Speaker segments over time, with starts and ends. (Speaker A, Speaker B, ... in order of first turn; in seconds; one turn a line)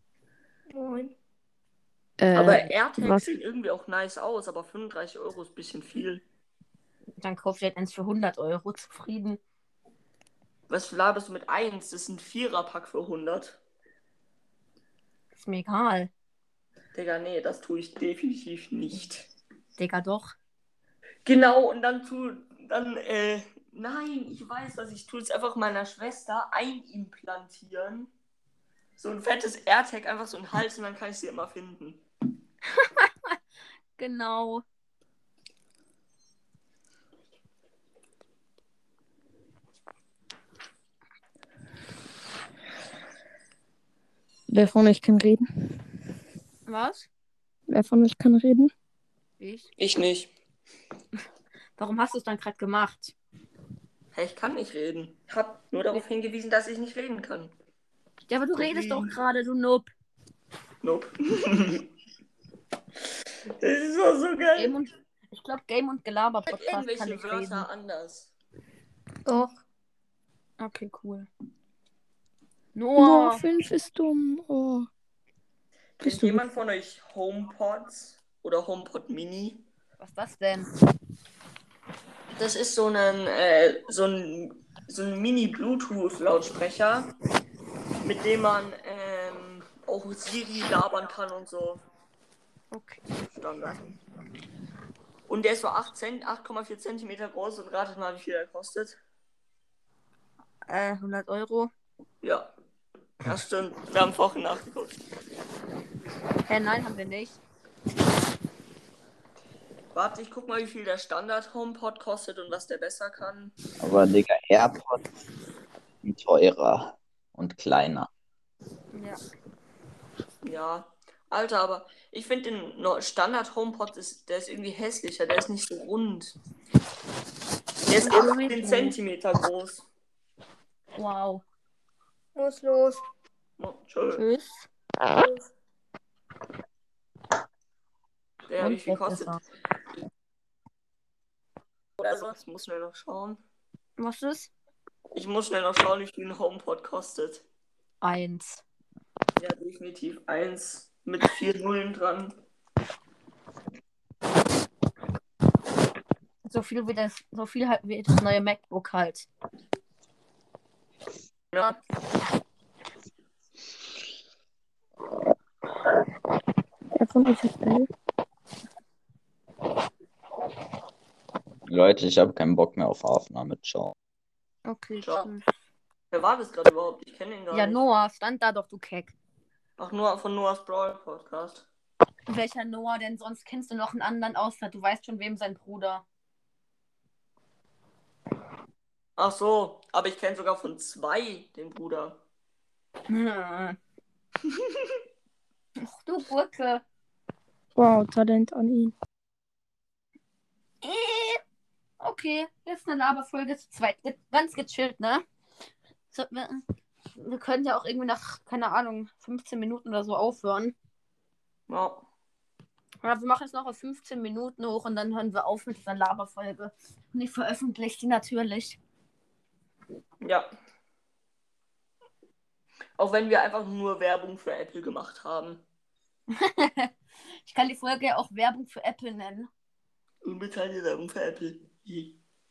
Speaker A: 2.2-3.2
Speaker B: 2.3-6.2
Speaker C: 7.2-9.4
Speaker B: 10.7-13.6
Speaker C: 15.3-16.1
Speaker B: 16.9-19.3
Speaker C: 19.8-20.4
Speaker B: 21.2-28.1
Speaker B: 29.0-32.0
Speaker C: 32.8-33.4
Speaker C: 34.0-34.6
Speaker A: 44.5-45.4
Speaker C: 46.6-47.1
Speaker A: 47.7-48.7
Speaker C: 49.4-49.7
Speaker B: 49.8-50.3
Speaker C: 51.8-53.1
Speaker B: 54.1-57.5
Speaker C: 58.3-59.9
Speaker B: 58.6-59.2
Speaker B: 60.8-61.9
Speaker B: 63.6-64.8
Speaker C: 64.5-67.7
Speaker B: 66.5-68.3
Speaker A: 69.2-69.5
Speaker C: 70.6-71.3
Speaker C: 72.7-73.4
Speaker A: 73.0-74.9
Speaker B: 76.0-79.6
Speaker A: 76.0-76.4
Speaker C: 80.0-80.7
Speaker B: 82.3-87.2
Speaker B: 88.0-91.8
Speaker C: 92.7-93.0
Speaker B: 93.3-93.9
Speaker B: 95.3-99.0
Speaker C: 100.7-101.7
Speaker B: 102.2-102.5
Speaker B: 103.2-105.0
Speaker C: 106.5-107.4
Speaker B: 109.9-113.5
Speaker D: 113.8-115.0
Speaker D: 116.0-118.1
Speaker C: 118.9-119.2
Speaker B: 120.4-126.4
Speaker B: 127.8-129.9
Speaker C: 128.0-128.9
Speaker C: 130.9-131.4
Speaker A: 132.4-132.9
Speaker B: 133.6-134.2
Speaker C: 134.1-134.6
Speaker B: 138.5-139.4
Speaker C: 138.6-139.4
Speaker B: 142.0-143.4
Speaker C: 144.0-144.5
Speaker B: 145.1-147.4
Speaker C: 148.0-148.6
Speaker B: 149.4-152.4
Speaker C: 156.4-159.3
Speaker A: 166.9-167.9
Speaker D: 171.7-173.9
Speaker C: 174.7-175.4
Speaker B: 175.0-175.2
Speaker B: 176.1-177.8
Speaker C: 177.5-179.1
Speaker B: 179.8-181.7
Speaker C: 182.3-186.0
Speaker B: 189.2-192.2
Speaker C: 193.1-193.8
Speaker C: 195.8-196.8
Speaker A: 197.7-198.9
Speaker C: 200.8-201.4
Speaker C: 202.0-205.2
Speaker C: 206.1-206.6
Speaker C: 207.1-210.7
Speaker B: 211.7-212.1
Speaker C: 213.0-218.8
Speaker B: 220.2-220.5
Speaker B: 223.0-225.6
Speaker C: 226.4-226.9
Speaker C: 227.4-229.5
Speaker B: 230.2-232.2